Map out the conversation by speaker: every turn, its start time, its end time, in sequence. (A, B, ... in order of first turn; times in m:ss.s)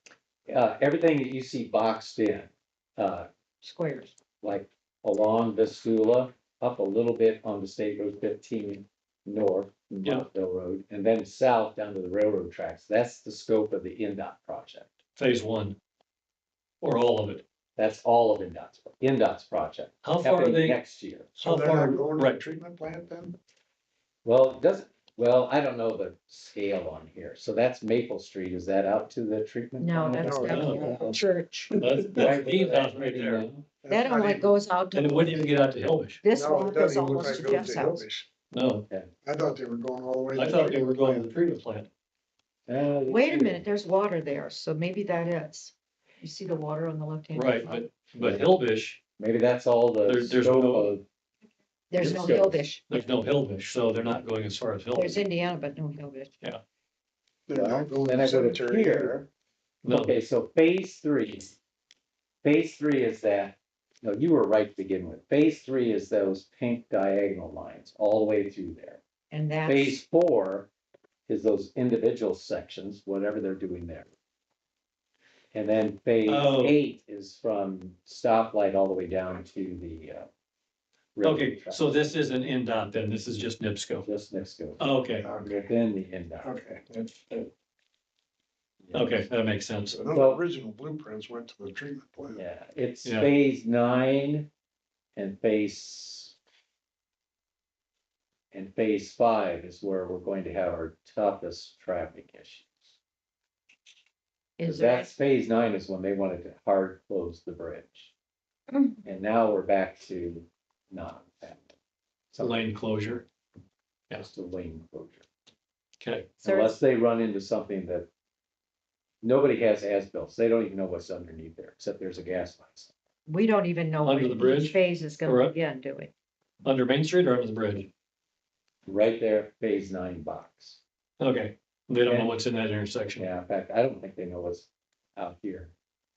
0:00.5-0:03.3 A
0:03.6-0:04.1 B
0:04.4-0:14.9 A
0:15.2-0:15.8 C
0:16.8-0:17.4 C
0:17.8-0:21.3 A
0:20.0-0:20.8 C
0:21.3-0:23.4 D
0:21.4-0:22.4 C
0:24.2-0:30.7 A
0:29.8-0:31.7 B
0:30.2-0:32.0 D
0:30.5-0:30.8 C
0:31.8-0:33.4 C
0:32.1-0:33.7 A
0:33.8-0:34.6 D
0:33.9-0:35.4 B
0:34.9-0:36.2 C
0:36.2-0:38.0 B
0:36.3-0:38.3 D
0:38.5-0:38.9 C
0:39.2-0:41.3 D
0:40.4-0:41.9 C
0:42.7-0:43.6 A
0:43.1-0:47.8 B
0:47.3-0:49.0 C
0:48.1-0:48.4 A
0:49.2-0:51.0 A
0:50.1-0:50.9 C
0:51.9-0:52.8 B
0:52.0-0:52.6 A
0:52.0-0:55.2 C
0:54.9-0:56.3 B
0:57.5-0:59.2 D
0:57.5-0:59.2 A
0:59.8-1:00.1 C
0:59.9-1:01.5 A
1:02.4-1:09.0 A
1:09.3-1:10.0 B
1:09.6-1:10.7 A
1:11.3-1:14.1 A
1:15.5-1:20.3 A
1:16.2-1:16.8 C
1:21.1-1:22.0 A
1:21.2-1:24.1 C
1:24.0-1:24.8 A
1:24.8-1:25.2 C
1:25.2-1:25.6 D
1:25.4-1:26.5 A
1:26.4-1:27.5 D
1:28.8-1:29.3 A
1:28.9-1:30.0 C
1:29.9-1:32.4 D
1:30.1-1:30.4 A
1:32.3-1:34.5 A
1:35.2-1:36.3 A
1:38.5-1:42.7 A
1:44.6-1:45.1 B
1:44.6-1:48.1 A
1:48.7-1:49.0 B
1:49.0-1:51.7 A
1:52.3-1:52.6 A
1:52.4-1:53.2 C
1:54.1-1:55.2 A
1:56.0-1:56.3 C
1:56.4-1:58.1 A
1:56.4-1:56.8 B
1:59.2-2:02.9 A
2:03.2-2:06.1 B
2:04.0-2:05.5 C
2:06.6-2:07.9 C
2:08.8-2:10.8 A
2:11.2-2:13.3 C
2:12.0-2:12.4 A
2:13.1-2:15.7 A